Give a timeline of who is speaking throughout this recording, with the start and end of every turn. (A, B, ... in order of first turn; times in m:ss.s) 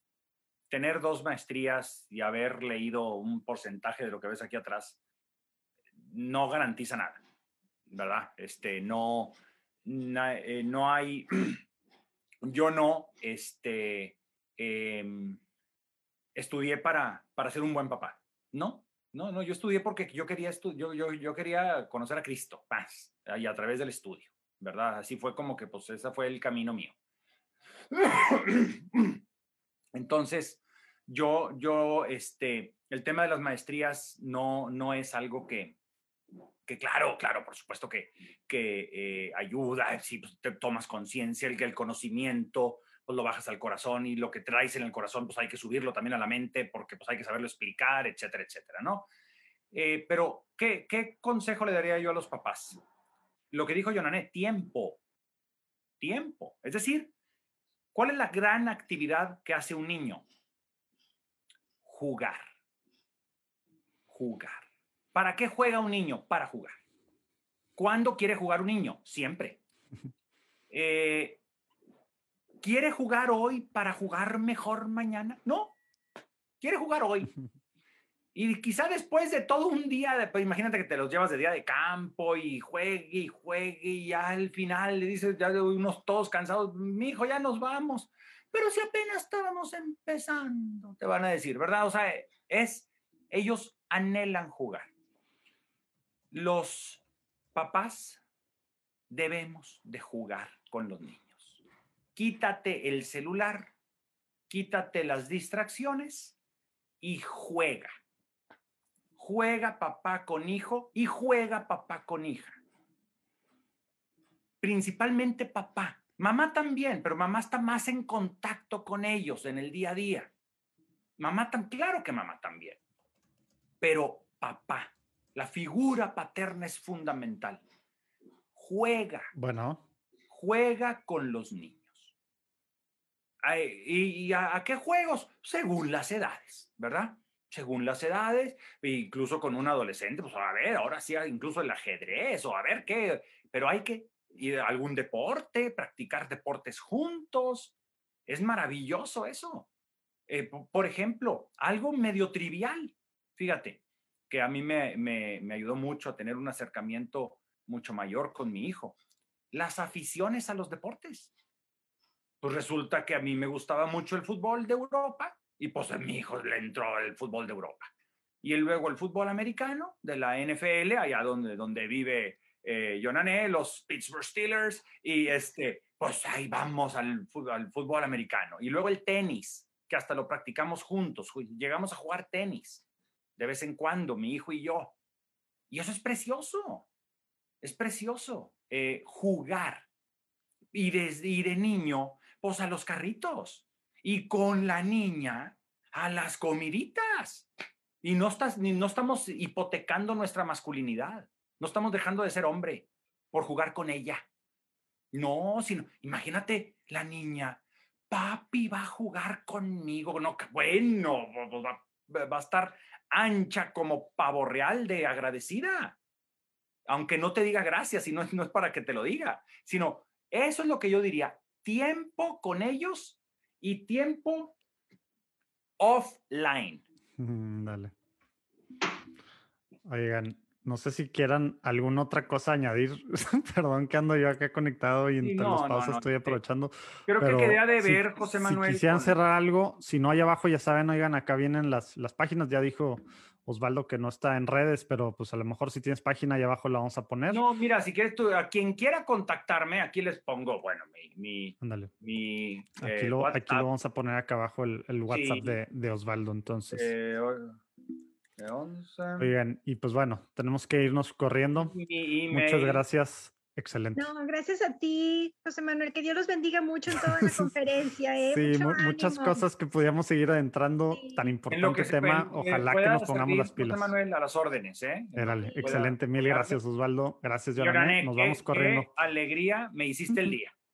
0:00.7-0:05.0 A
0:06.1-0:07.2 A
0:07.9-0:11.6 A
0:12.4-0:15.4 A
0:16.4-0:27.0 A
0:27.9-0:29.2 A
0:29.9-0:35.8 A
0:36.7-0:49.1 A
0:49.7-0:52.8 A
0:53.5-0:55.0 A
0:56.0-0:57.1 A
0:57.9-1:00.2 A
1:01.8-1:02.5 A
1:04.1-1:06.8 A
1:07.8-1:09.6 A
1:10.7-1:11.4 A
1:12.6-1:15.8 A
1:16.6-1:17.3 A
1:18.3-1:34.9 A
1:36.3-1:37.0 A
1:37.6-1:38.2 A
1:39.1-1:41.6 A
1:42.2-1:43.7 A
1:44.5-1:46.4 A
1:47.0-1:47.9 A
1:49.2-1:52.6 A
1:54.6-2:00.3 A
2:01.2-2:02.8 A
2:03.8-2:07.6 A
2:08.6-2:09.3 A
2:09.3-2:09.8 B
2:10.3-2:12.1 A
2:13.4-2:27.7 A
2:28.3-2:29.7 A
2:30.3-2:39.0 A
2:39.5-2:41.3 A
2:42.4-2:47.9 A
2:48.4-3:02.8 A
3:03.4-3:05.0 A
3:05.7-3:06.9 A
3:07.6-3:09.9 A
3:10.7-3:17.5 A
3:18.0-3:24.2 A
3:25.1-3:36.0 A
3:36.9-3:44.6 A
3:45.8-3:46.8 A
3:47.2-3:47.9 B
3:49.9-4:07.4 B
3:55.2-3:56.4 A
3:57.1-3:59.2 A
4:07.3-4:13.7 A
4:11.6-4:11.9 B
4:12.8-4:16.9 B
4:15.1-4:15.6 A
4:16.7-4:17.6 A
4:18.4-4:19.3 A
4:19.2-4:21.8 B
4:21.7-4:22.8 A
4:22.3-4:24.1 B
4:24.0-4:29.4 C
4:26.9-4:27.5 B
4:28.2-4:33.9 B
4:30.9-4:31.2 C
4:31.5-4:36.6 A
4:35.2-4:38.9 B
4:35.5-4:35.8 C
4:37.6-4:40.5 A